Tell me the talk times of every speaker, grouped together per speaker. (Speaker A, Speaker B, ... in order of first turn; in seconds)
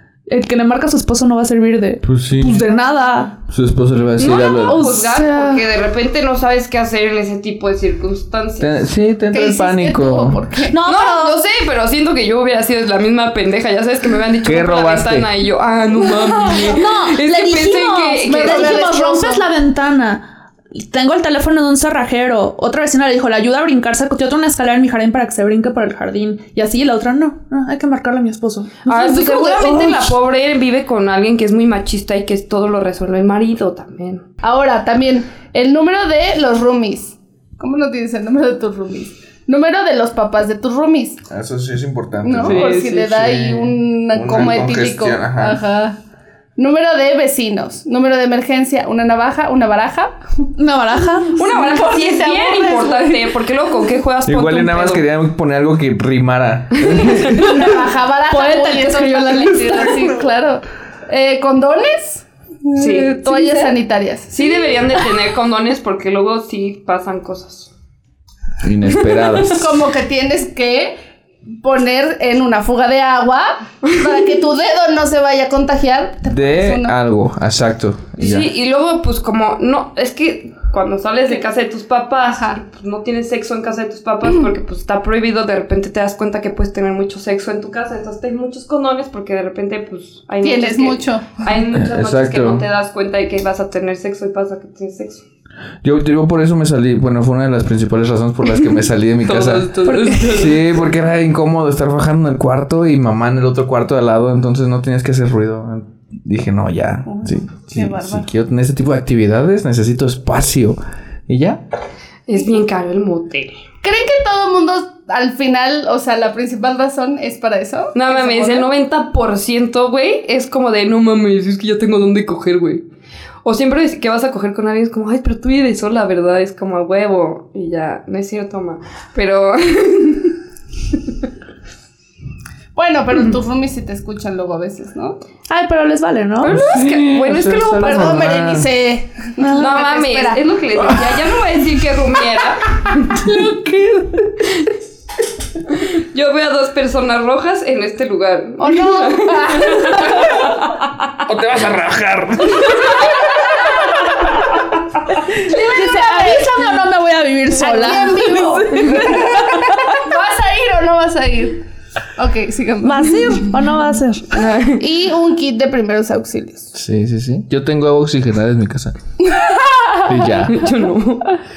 Speaker A: 0.3-3.4, 4.2-5.7, 10.7-11.4, 16.1-30.1, 50.6-51.5, 57.4-60.1, 99.8-100.4, 135.5-136.8, 139.4-139.7, 155.4-159.9, 162.8-164.4
Speaker B: 2.0-2.6, 3.5-4.9, 8.6-10.4, 14.4-15.3, 41.3-45.6, 54.2-57.6, 68.6-69.7, 76.2-78.5, 91.7-92.6, 95.8-99.7, 100.2-111.6, 136.4-138.7, 140.8-141.2, 143.2-144.3, 151.2-153.2, 166.7-169.0, 170.0-170.6
Speaker C: 4.2-8.8, 10.8-18.9, 28.9-34.2, 42.4-43.0, 51.4-55.0, 56.8-57.3, 62.8-63.6, 64.3-67.7, 68.9-69.5, 78.2-95.2, 99.2-100.8, 112.3-113.5, 117.9-122.8, 123.4-130.4, 136.4-138.2, 139.5-143.2, 145.7-150.8, 157.9-159.1, 164.3-164.8, 170.4-171.4
Speaker D: 9.3-10.8, 18.3-19.4, 28.9-29.8, 34.4-41.2, 42.2-46.0, 46.6-50.2, 51.4-53.3, 57.3-64.6, 69.5-71.0, 71.6-77.0, 82.3-82.6, 90.4-91.4, 107.0-108.3, 113.8-118.7, 132.7-135.2, 137.8-140.4, 148.6-150.4, 155.4-156.8, 157.5-161.6, 162.2-163.6, 164.8-166.7, 169.2-170.1